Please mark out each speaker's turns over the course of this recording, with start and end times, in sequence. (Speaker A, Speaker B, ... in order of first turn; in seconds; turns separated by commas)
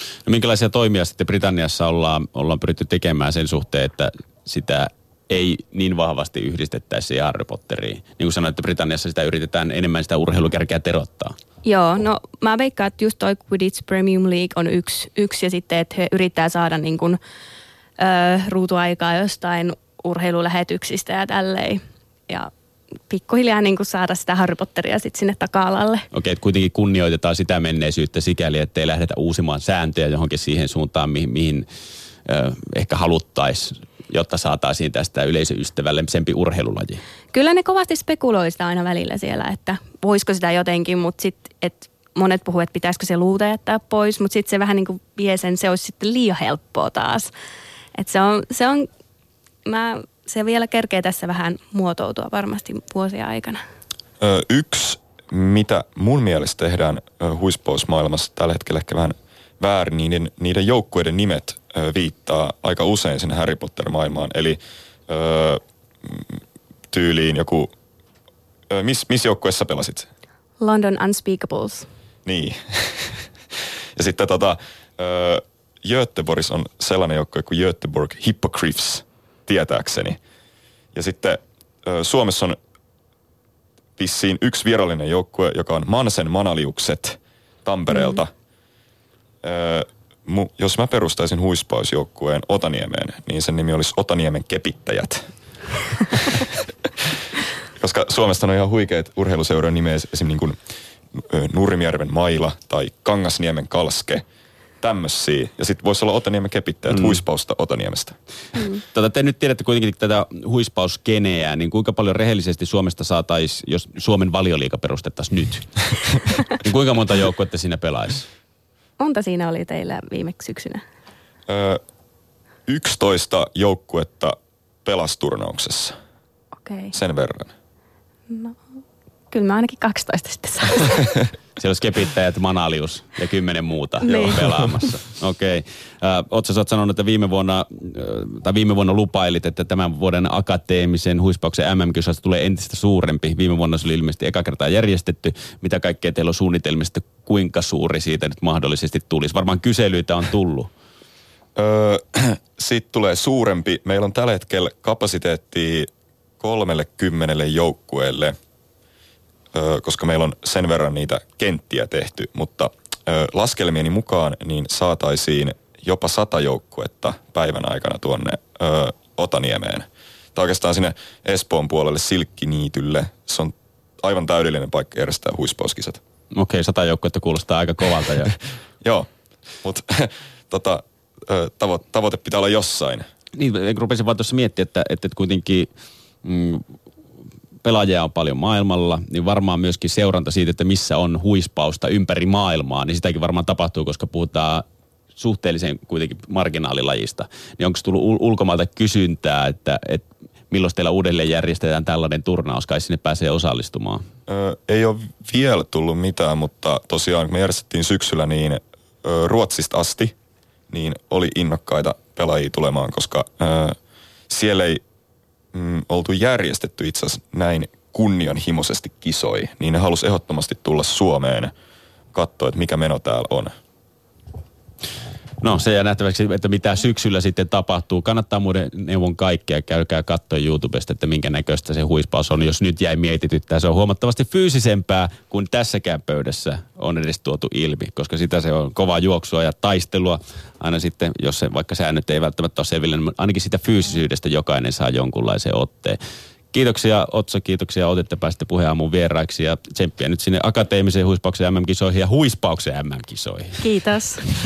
Speaker A: 0.2-11.3, Speaker B: 11.6-17.2, Speaker B: 18.0-22.5, Speaker B: 23.1-26.1, Speaker A: 26.1-31.7, Speaker A: 32.2-37.0, Speaker B: 37.3-47.3, Speaker B: 47.9-48.9, Speaker B: 49.6-53.6, Speaker C: 54.2-66.4, Speaker C: 66.9-67.7, Speaker C: 68.7-70.1, Speaker B: 70.6-71.9, Speaker C: 72.2-73.2, Speaker C: 74.0-80.2, Speaker C: 80.9-82.6, Speaker C: 84.0-88.3, Speaker B: 87.9-88.2, Speaker C: 89.4-95.3, Speaker C: 96.1-97.2, Speaker C: 97.8-100.6, Speaker C: 101.1-104.2, Speaker C: 104.8-108.2, Speaker A: 106.9-107.2, Speaker B: 108.5-108.8, Speaker A: 108.9-115.8, Speaker A: 116.5-118.2, Speaker B: 119.0-120.8, Speaker C: 121.5-121.8, Speaker C: 122.7-125.9, Speaker B: 126.6-126.9, Speaker C: 126.9-127.5, Speaker B: 128.3-128.6, Speaker B: 129.3-131.1, Speaker A: 131.6-150.7, Speaker B: 134.0-134.5, Speaker C: 151.6-158.3, Speaker C: 159.5-176.0, Speaker A: 176.3-178.3, Speaker C: 178.8-179.1, Speaker C: 179.6-183.1, Speaker A: 183.3-185.7, Speaker A: 186.2-186.6, Speaker A: 187.6-194.6, Speaker A: 195.2-204.1, Speaker C: 204.3-210.1, Speaker C: 210.7-213.8, Speaker C: 214.3-214.8, Speaker C: 215.5-221.5, Speaker C: 222.1-223.5, Speaker A: 225.4-246.0, Speaker A: 246.5-253.7, Speaker B: 253.6-254.3